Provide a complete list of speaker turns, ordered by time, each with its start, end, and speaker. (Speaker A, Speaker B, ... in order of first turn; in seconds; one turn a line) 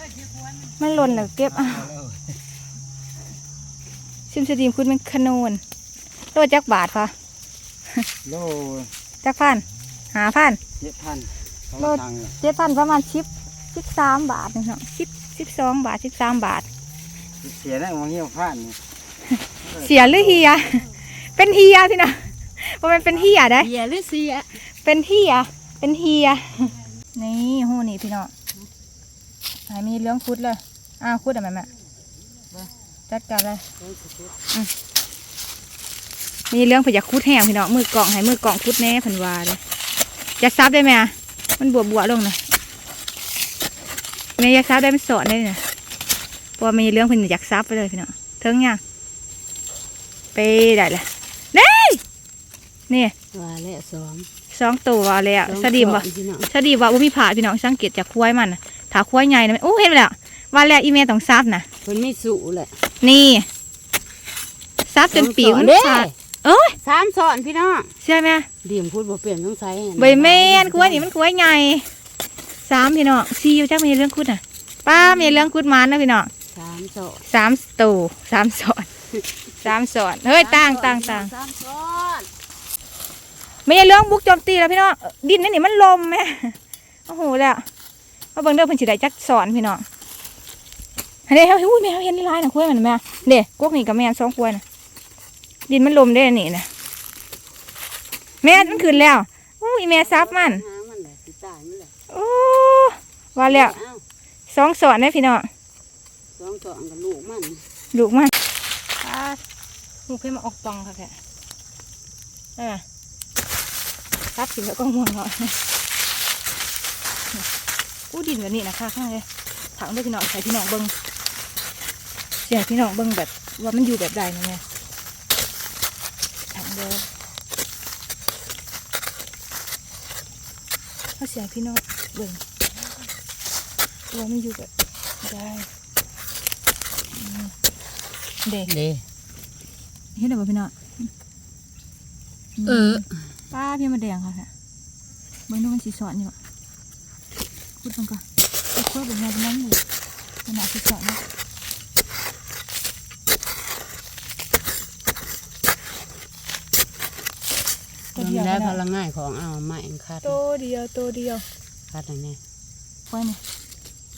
Speaker A: 0.8-1.9
Speaker B: 1.6-2.0
Speaker A: 4.3-5.6
Speaker A: 6.3-7.1
Speaker B: 8.2-8.9
Speaker A: 9.2-10.6
Speaker B: 10.8-12.3
Speaker A: 11.8-16.7
Speaker B: 17.4-18.8
Speaker B: 19.7-20.2
Speaker A: 19.7-23.7
Speaker C: 23.6-24.6
Speaker A: 24.7-28.3
Speaker A: 29.7-31.7
Speaker A: 33.1-33.6
Speaker C: 33.8-34.4
Speaker A: 36.5-39.6
Speaker A: 40.4-42.4
Speaker A: 44.4-45.6
Speaker A: 46.6-48.8
Speaker A: 50.3-52.0
Speaker A: 52.9-53.1
Speaker C: 53.3-54.3
Speaker A: 54.5-61.7
Speaker C: 55.4-56.5
Speaker C: 61.8-62.8
Speaker A: 63.0-63.5
Speaker A: 64.9-66.8
Speaker C: 65.1-66.1
Speaker C: 66.8-67.9
Speaker A: 68.0-68.5
Speaker C: 68.6-71.1
Speaker A: 70.0-71.9
Speaker A: 72.6-76.3
Speaker C: 74.9-75.5
Speaker C: 76.5-77.2
Speaker A: 77.2-78.9
Speaker C: 79.2-79.5
Speaker A: 79.6-81.3
Speaker C: 80.4-82.3
Speaker A: 83.7-87.7
Speaker A: 88.3-89.8
Speaker A: 91.3-94.6
Speaker A: 95.7-96.7
Speaker A: 98.4-100.6
Speaker C: 98.5-99.1
Speaker C: 100.0-101.9
Speaker A: 102.1-103.8
Speaker C: 103.5-104.0
Speaker A: 104.5-105.5
Speaker C: 106.4-107.6
Speaker A: 107.9-108.3
Speaker A: 109.0-109.4
Speaker A: 110.1-111.2
Speaker A: 112.6-112.8
Speaker A: 114.3-115.6
Speaker A: 118.1-120.9
Speaker A: 122.4-124.6
Speaker A: 126.5-127.1
Speaker A: 131.2-132.4
Speaker A: 134.1-134.7
Speaker A: 135.2-135.7
Speaker A: 137.2-137.5
Speaker A: 138.4-138.7
Speaker C: 138.7-139.0
Speaker A: 140.1-141.1
Speaker A: 142.6-144.5
Speaker C: 142.7-143.0
Speaker A: 145.5-146.3
Speaker A: 147.8-148.2
Speaker A: 148.7-149.8
Speaker A: 150.4-151.2
Speaker A: 158.1-158.8
Speaker C: 158.1-160.4
Speaker A: 160.2-161.4
Speaker C: 161.9-162.4
Speaker A: 163.1-163.4